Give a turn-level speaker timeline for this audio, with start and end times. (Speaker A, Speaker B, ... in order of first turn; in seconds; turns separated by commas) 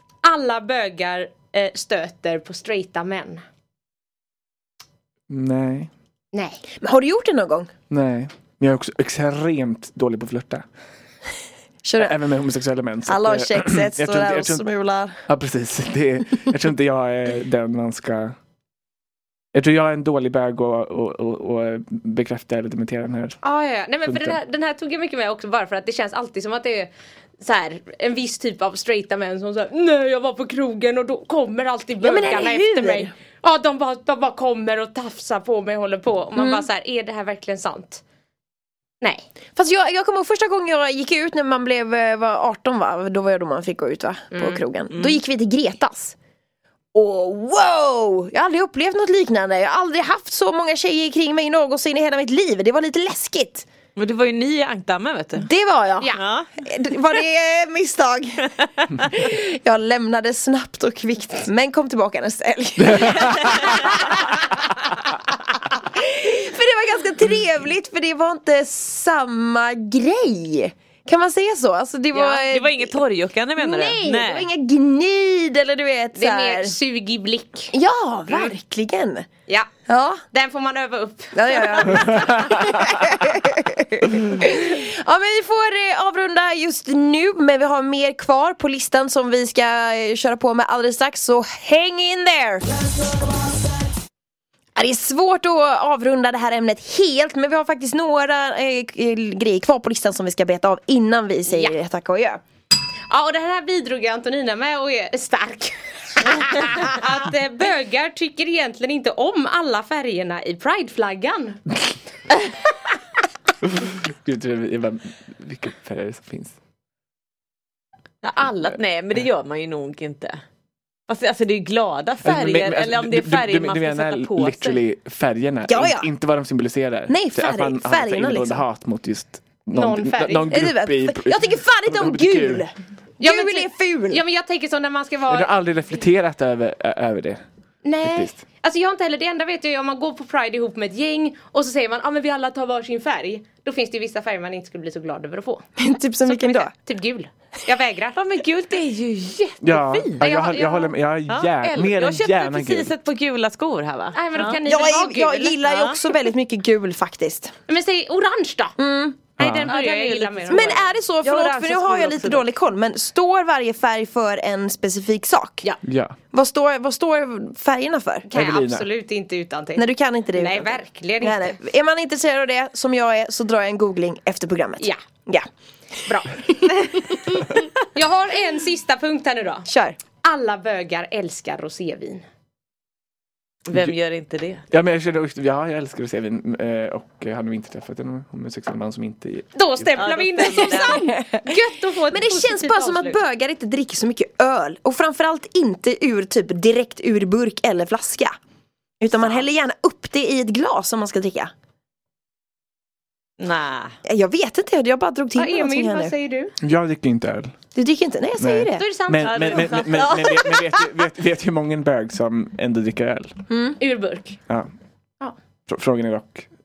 Speaker A: 0.2-3.4, Speaker B: 5.3-5.9, Speaker A: 6.3-6.6, Speaker C: 6.8-7.7, Speaker B: 7.9-10.7, Speaker C: 11.8-12.2, Speaker B: 12.0-14.6, Speaker C: 13.1-15.2, Speaker B: 15.3-18.4, Speaker B: 19.5-23.4, Speaker A: 23.4-38.0, Speaker B: 24.1-24.4, Speaker C: 32.0-33.1, Speaker C: 36.4-36.6, Speaker C: 39.6-46.2, Speaker A: 44.3-44.6, Speaker C: 46.9-53.7, Speaker D: 54.0-55.5, Speaker C: 55.4-64.2, Speaker D: 56.2-56.5, Speaker B: 62.8-63.7, Speaker C: 65.6-73.0, Speaker D: 72.1-74.5, Speaker C: 73.6-76.8, Speaker A: 76.2-77.7, Speaker C: 77.7-79.3, Speaker C: 79.9-80.2, Speaker A: 80.3-82.5, Speaker C: 81.3-92.7, Speaker C: 94.8-102.4, Speaker A: 101.5-101.8, Speaker A: 103.1-111.6, Speaker B: 113.7-116.5, Speaker D: 118.2-120.4, Speaker D: 121.1-124.8, Speaker B: 122.2-132.7, Speaker C: 125.7-126.1, Speaker C: 127.1-128.6, Speaker A: 129.7-130.6, Speaker C: 130.5-134.2, Speaker A: 133.2-135.5, Speaker B: 135.3-137.4, Speaker A: 137.8-145.7, Speaker B: 138.0-138.4, Speaker C: 145.8-146.7, Speaker A: 146.2-148.2, Speaker D: 148.2-150.2, Speaker B: 149.6-152.9, Speaker A: 150.2-150.9, Speaker D: 151.3-154.6, Speaker A: 154.1-155.6, Speaker C: 154.6-157.5, Speaker D: 155.7-156.1, Speaker A: 157.7-158.8, Speaker C: 158.8-159.2, Speaker A: 159.4-160.8, Speaker B: 159.4-159.7, Speaker D: 159.7-162.2, Speaker C: 160.5-165.7, Speaker A: 161.4-162.4, Speaker B: 165.8-166.2, Speaker C: 166.3-168.3, Speaker A: 168.3-171.6, Speaker B: 168.3-168.9, Speaker C: 169.8-175.5, Speaker A: 176.1-176.5, Speaker C: 176.4-177.5, Speaker A: 177.9-179.7, Speaker C: 179.7-180.0, Speaker A: 180.2-182.2, Speaker D: 183.7-184.6, Speaker B: 184.7-190.1, Speaker A: 189.6-193.2, Speaker D: 190.0-191.1, Speaker C: 190.6-191.6, Speaker C: 192.1-198.3, Speaker C: 199.0-201.5, Speaker D: 203.4-203.9, Speaker C: 204.0-206.1, Speaker A: 205.3-206.6, Speaker B: 206.6-207.6, Speaker C: 207.8-208.9, Speaker B: 208.4-213.4, Speaker A: 208.8-209.7, Speaker D: 209.2-210.8, Speaker C: 213.5-213.8, Speaker A: 213.8-214.4, Speaker B: 215.7-216.5